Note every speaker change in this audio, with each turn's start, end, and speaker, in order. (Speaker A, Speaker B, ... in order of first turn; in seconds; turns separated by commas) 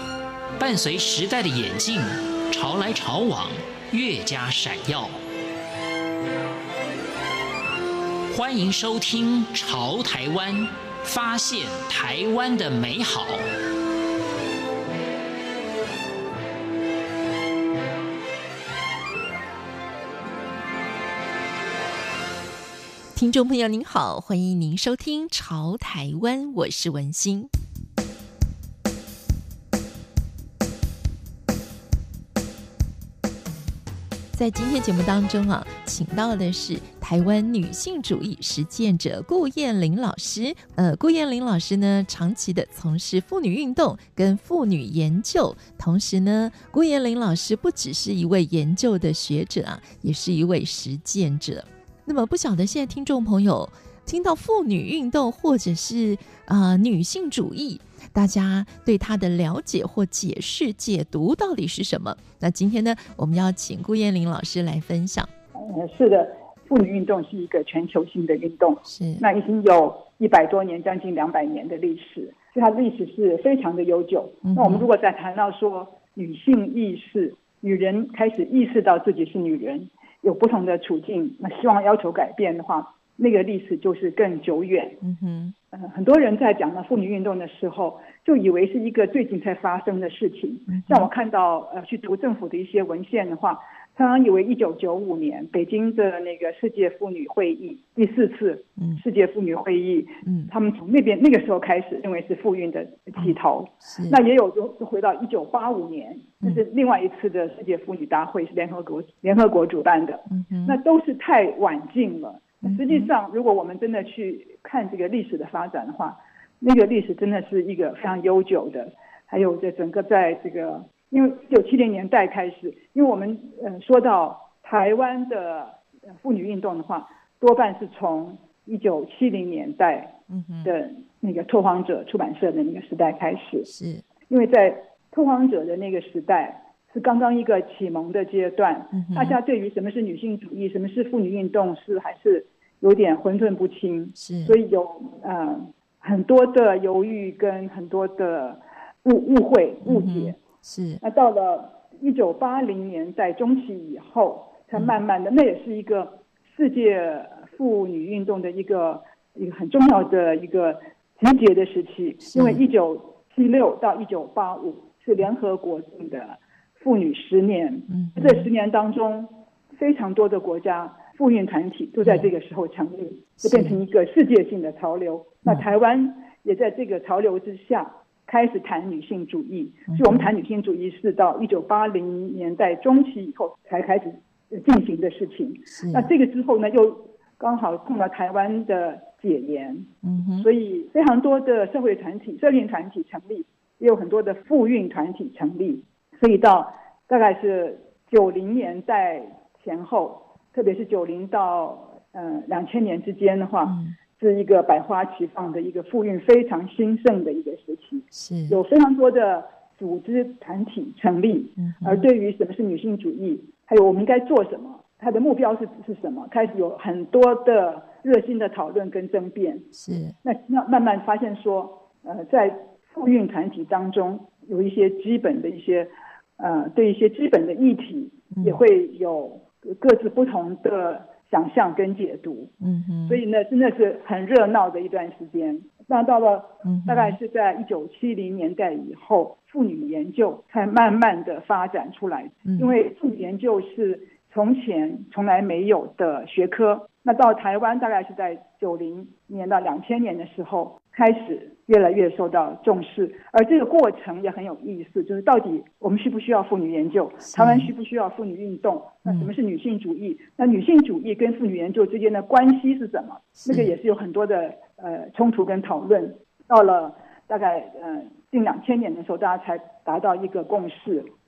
Speaker A: 0.6-5.1, Speaker A: 8.3-13.4, Speaker B: 23.1-27.5, Speaker B: 34.3-65.3, Speaker C: 65.6-85.0, Speaker B: 68.8-69.2, Speaker B: 74.5-74.9, Speaker B: 85.0-85.5, Speaker C: 85.7-133.7, Speaker B: 90.7-91.1, Speaker B: 100.2-100.5, Speaker B: 103.2-104.2, Speaker B: 110.3-110.8, Speaker B: 112.6-113.1, Speaker B: 130.3-130.7, Speaker B: 133.6-134.0, Speaker C: 134.3-150.4, Speaker B: 138.9-139.4, Speaker B: 144.2-144.6, Speaker B: 149.8-151.0, Speaker C: 151.0-189.9, Speaker B: 162.3-162.6, Speaker B: 167.9-168.5, Speaker B: 172.0-172.3, Speaker B: 173.4-173.8, Speaker B: 179.9-180.3, Speaker B: 185.7-186.1, Speaker B: 190.0-190.5, Speaker C: 190.4-219.7, Speaker B: 203.6-203.9, Speaker B: 208.1-208.6, Speaker B: 211.6-212.1, Speaker B: 219.7-220.2, Speaker C: 220.2-232.5, Speaker B: 228.3-228.6, Speaker B: 232.6-233.2, Speaker C: 233.1-271.1, Speaker B: 236.6-237.2, Speaker B: 242.4-242.7, Speaker B: 257.3-257.7, Speaker B: 259.0-259.3, Speaker B: 263.4-263.7